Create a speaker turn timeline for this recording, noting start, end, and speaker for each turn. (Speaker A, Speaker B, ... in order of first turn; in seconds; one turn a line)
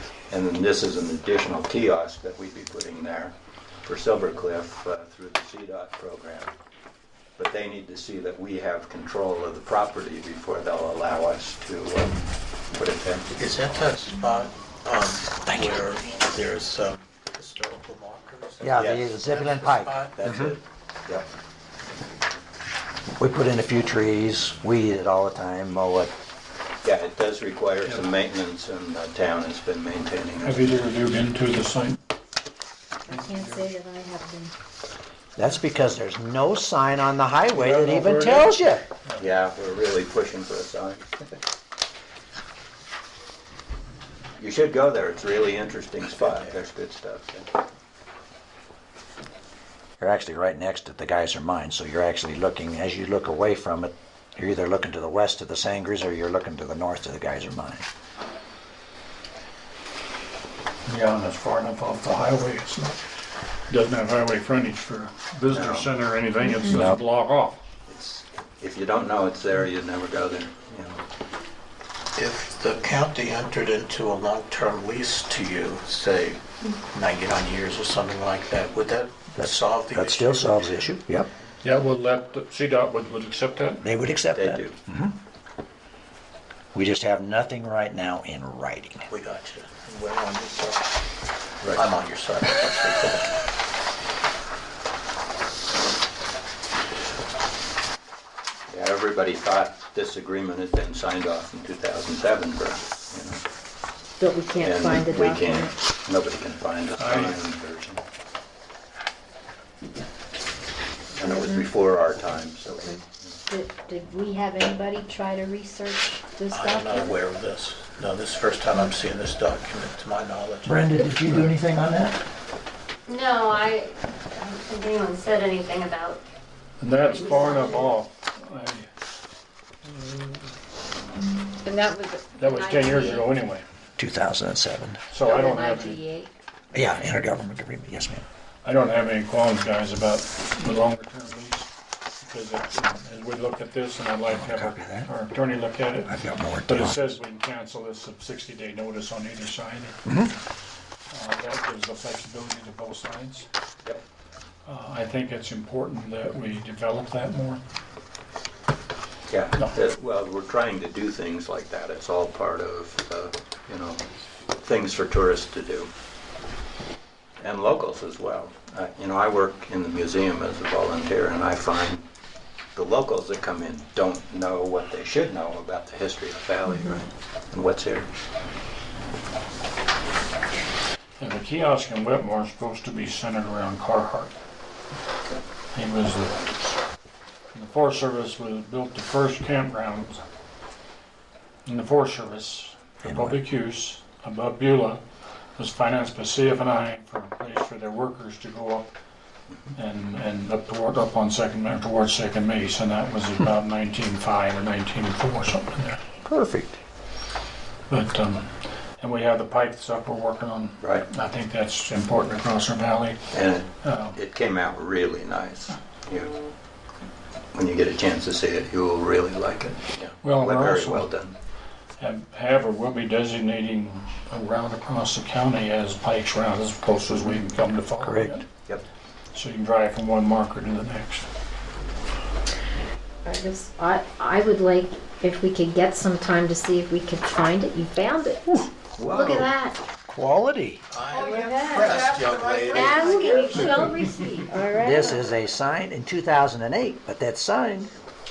Speaker A: 0.3-3.3
Speaker A: 3.9-6.5
Speaker A: 7.4-12.2
Speaker A: 12.7-13.4
Speaker B: 13.4-20.6
Speaker C: 15.5-15.8
Speaker C: 18.6-20.5
Speaker A: 18.7-19.1
Speaker A: 20.2-20.5
Speaker C: 23.2-26.1
Speaker A: 26.8-30.7
Speaker D: 30.4-32.0
Speaker E: 33.1-34.5
Speaker C: 35.4-38.8
Speaker D: 37.5-39.2
Speaker A: 39.2-41.0
Speaker A: 44.4-47.5
Speaker C: 50.0-57.9
Speaker D: 60.9-63.0
Speaker D: 63.7-67.6
Speaker A: 65.5-65.9
Speaker C: 66.7-67.0
Speaker A: 67.9-71.0
Speaker B: 72.2-80.9
Speaker C: 79.3-81.3
Speaker D: 81.6-83.8
Speaker C: 83.8-85.2
Speaker A: 84.3-84.8
Speaker C: 86.7-89.1
Speaker B: 89.1-90.9
Speaker B: 91.7-93.4
Speaker A: 98.7-103.4
Speaker E: 104.2-105.7
Speaker A: 104.6-108.0
Speaker D: 107.0-107.4
Speaker A: 111.1-113.3
Speaker E: 111.2-111.7
Speaker E: 112.8-117.2
Speaker B: 116.5-120.8
Speaker C: 120.6-122.2
Speaker F: 123.1-126.2
Speaker D: 126.8-128.9
Speaker F: 127.1-127.9
Speaker F: 131.6-133.2
Speaker E: 131.7-132.1
Speaker D: 132.3-133.6
Speaker C: 134.0-135.0
Speaker D: 135.1-136.0
Speaker E: 135.2-136.3
Speaker C: 136.7-138.2
Speaker D: 138.6-141.7
Speaker D: 142.2-150.0
Speaker C: 144.3-145.1
Speaker C: 146.1-147.0
Speaker C: 150.1-150.3
Speaker D: 151.1-153.5
Speaker D: 154.7-157.6
Speaker A: 159.3-164.1
Speaker A: 164.6-165.9
Speaker A: 167.4-172.0
Speaker A: 172.7-178.1
Speaker D: 181.2-184.3
Speaker D: 185.7-186.7
Speaker D: 187.5-190.2
Speaker D: 191.7-195.0
Speaker C: 193.0-193.4
Speaker D: 195.6-198.9
Speaker D: 199.7-206.0
Speaker C: 206.2-206.8
Speaker D: 207.9-213.2
Speaker A: 210.8-211.1
Speaker A: 213.3-216.4
Speaker D: 213.8-214.2
Speaker A: 217.5-221.3
Speaker D: 220.2-221.1
Speaker D: 222.0-228.4
Speaker C: 228.0-228.4
Speaker D: 229.3-231.3
Speaker E: 233.2-239.8
Speaker A: 238.9-239.5
Speaker C: 240.1-240.8
Speaker B: 240.9-243.9
Speaker F: 241.1-244.5
Speaker E: 241.3-241.8
Speaker E: 242.7-245.2
Speaker C: 244.8-247.9